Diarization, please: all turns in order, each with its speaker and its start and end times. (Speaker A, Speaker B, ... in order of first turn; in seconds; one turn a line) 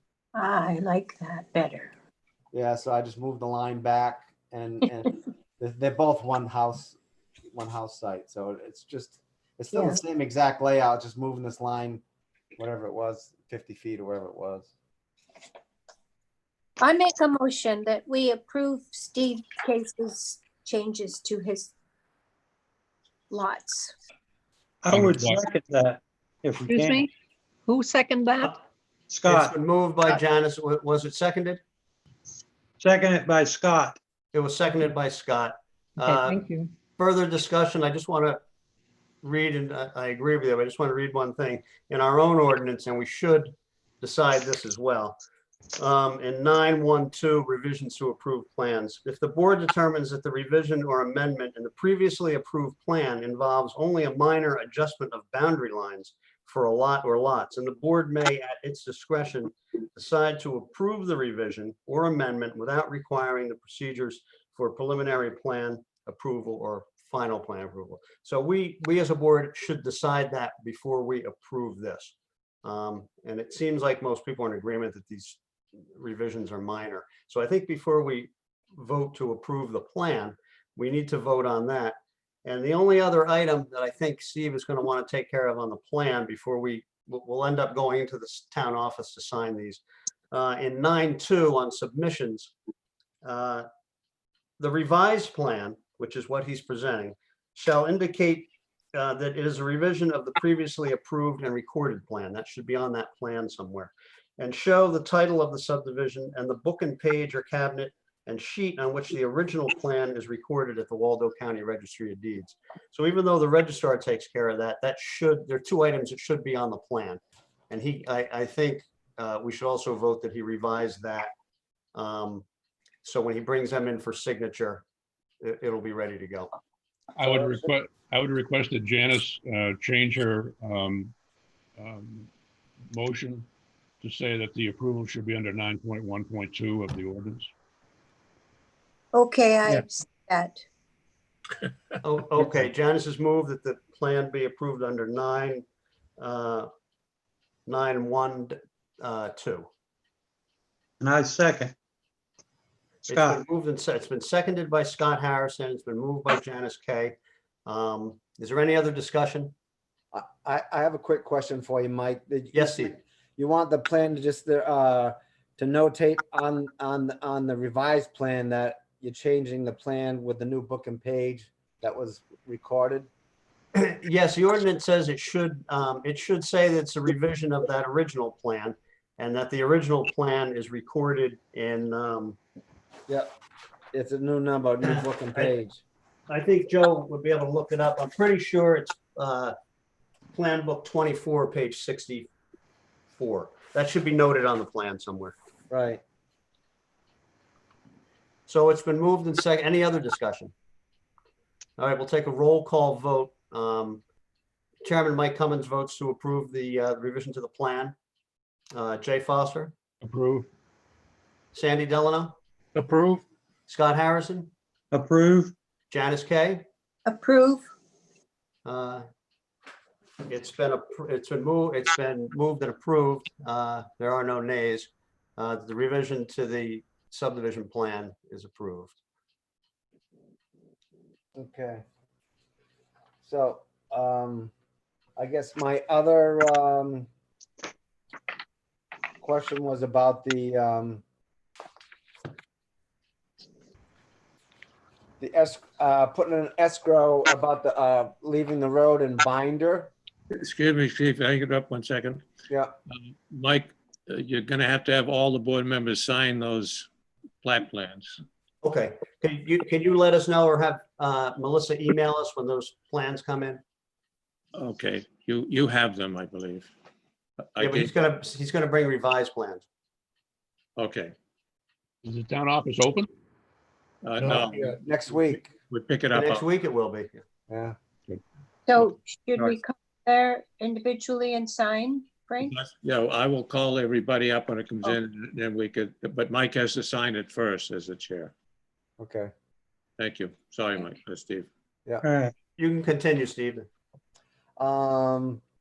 Speaker A: 0.3-1.9
Speaker B: 2.5-7.0
Speaker B: 7.5-12.0
Speaker A: 9.7-10.0
Speaker B: 12.6-14.7
Speaker A: 16.8-21.7
Speaker A: 23.3-23.9
Speaker C: 24.8-27.0
Speaker D: 24.9-25.4
Speaker E: 26.6-27.1
Speaker E: 27.6-28.6
Speaker C: 29.1-29.5
Speaker F: 29.3-31.6
Speaker C: 32.8-34.0
Speaker F: 34.3-36.4
Speaker E: 36.0-36.7
Speaker F: 37.0-38.4
Speaker F: 39.2-43.5
Speaker F: 44.0-45.1
Speaker F: 45.8-72.1
Speaker F: 72.6-75.4
Speaker F: 76.0-89.8
Speaker F: 90.3-92.5
Speaker F: 93.2-93.7
Speaker F: 94.6-117.2
Speaker F: 117.7-121.3
Speaker F: 121.9-122.4
Speaker F: 123.0-124.8
Speaker F: 125.4-126.5
Speaker D: 127.2-131.1
Speaker D: 131.8-132.3
Speaker D: 132.9-133.5
Speaker D: 134.0-137.5
Speaker A: 139.1-140.6
Speaker F: 142.0-145.6
Speaker F: 146.2-146.7
Speaker F: 147.7-149.7
Speaker C: 151.0-151.7
Speaker C: 153.1-153.4
Speaker F: 153.1-157.1
Speaker F: 157.7-159.5
Speaker B: 160.1-173.1
Speaker F: 162.5-162.9
Speaker F: 173.8-182.4
Speaker B: 183.9-185.8
Speaker F: 186.3-189.5
Speaker F: 190.3-192.3
Speaker F: 193.2-195.3
Speaker B: 195.7-196.0
Speaker F: 198.5-200.5
Speaker F: 201.8-204.0
Speaker F: 204.8-207.9
Speaker F: 208.7-209.7
Speaker D: 210.0-210.5
Speaker F: 211.5-212.3
Speaker D: 212.8-213.2
Speaker F: 213.7-214.5
Speaker C: 214.9-215.5
Speaker F: 215.9-216.6
Speaker A: 217.1-217.7
Speaker F: 218.7-219.0
Speaker F: 220.3-228.9
Speaker B: 231.3-231.8
Speaker B: 233.2-234.5
Speaker B: 235.2-237.1
Speaker B: 239.2-241.0
Speaker B: 245.2-249.9
Speaker G: 250.3-252.2
Speaker G: 252.9-256.9
Speaker G: 257.4-258.2
Speaker F: 258.6-263.6
Speaker G: 264.6-266.7
Speaker G: 267.5-267.9
Speaker F: 267.6-269.6
Speaker G: 270.8-271.1
Speaker D: 272.0-273.1
Speaker G: 274.0-274.8
Speaker D: 274.2-275.2
Speaker B: 274.5-275.5
Speaker G: 275.7-276.4
Speaker F: 276.1-277.2
Speaker B: 277.5-277.8
Speaker A: 278.7-282.5
Speaker G: 282.5-288.3
Speaker B: 289.0-289.3
Speaker G: 290.0-291.5
Speaker C: 292.0-292.3
Speaker F: 292.6-293.6
Speaker B: 294.6-295.4